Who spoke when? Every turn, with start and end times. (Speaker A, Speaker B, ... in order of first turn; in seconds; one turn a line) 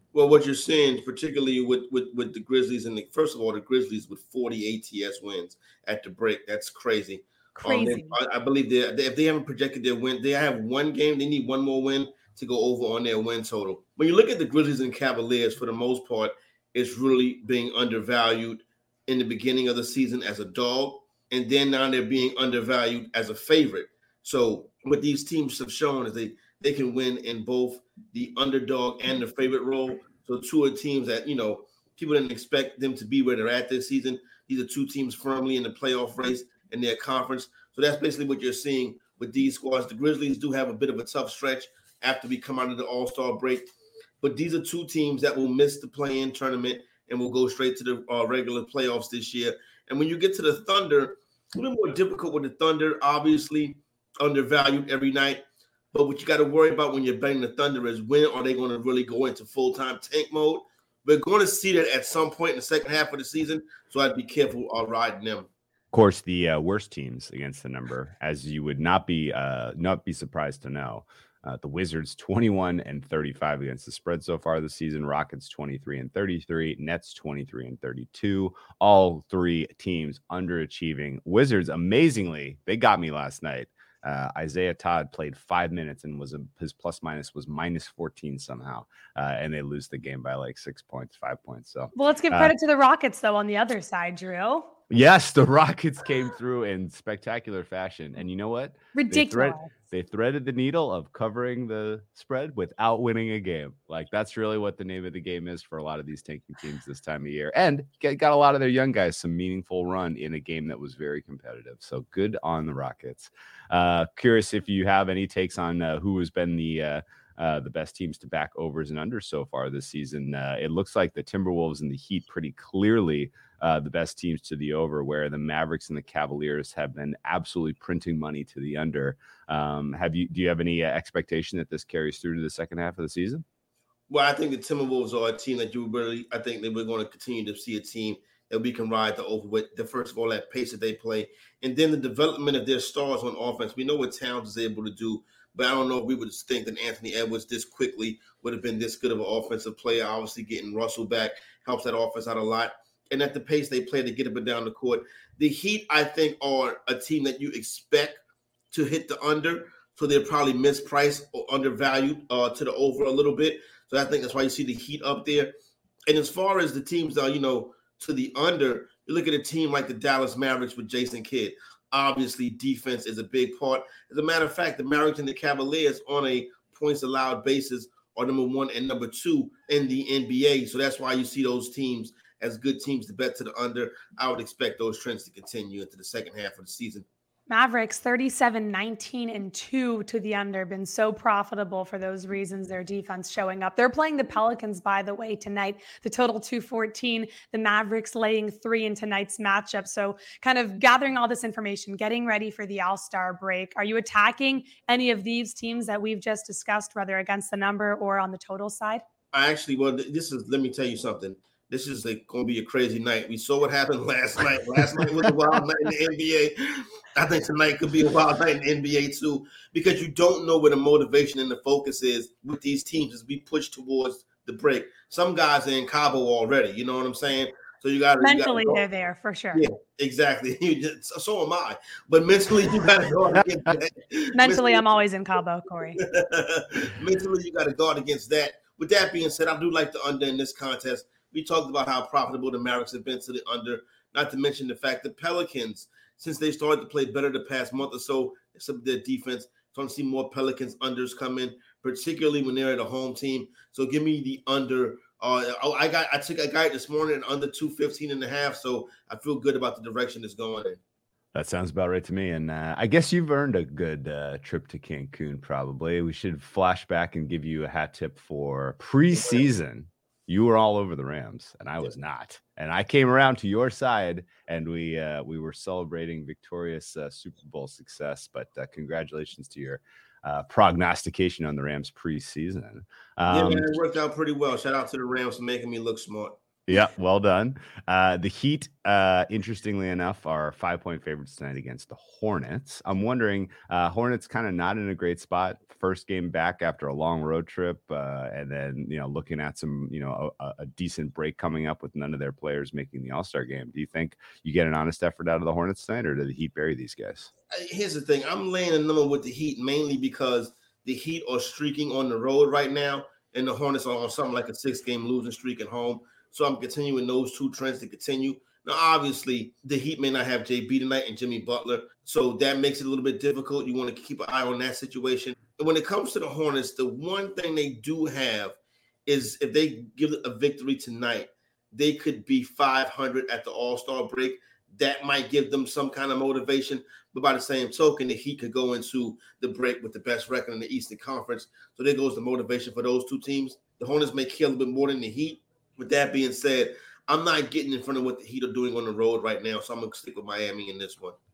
Speaker A: 0.1-43.7
Speaker B: 7.5-8.2
Speaker A: 44.2-65.5
Speaker C: 65.9-92.5
Speaker B: 91.9-94.7
Speaker C: 94.9-133.4
Speaker B: 98.9-99.7
Speaker A: 134.1-158.2
Speaker A: 158.7-165.5
Speaker A: 166.1-187.1
Speaker B: 187.5-209.0
Speaker A: 209.3-228.8
Speaker B: 228.2-229.6
Speaker A: 229.5-234.8
Speaker B: 234.4-236.0
Speaker A: 236.0-260.8
Speaker C: 261.3-283.7
Speaker A: 283.3-286.4
Speaker C: 286.7-307.3
Speaker A: 307.5-351.1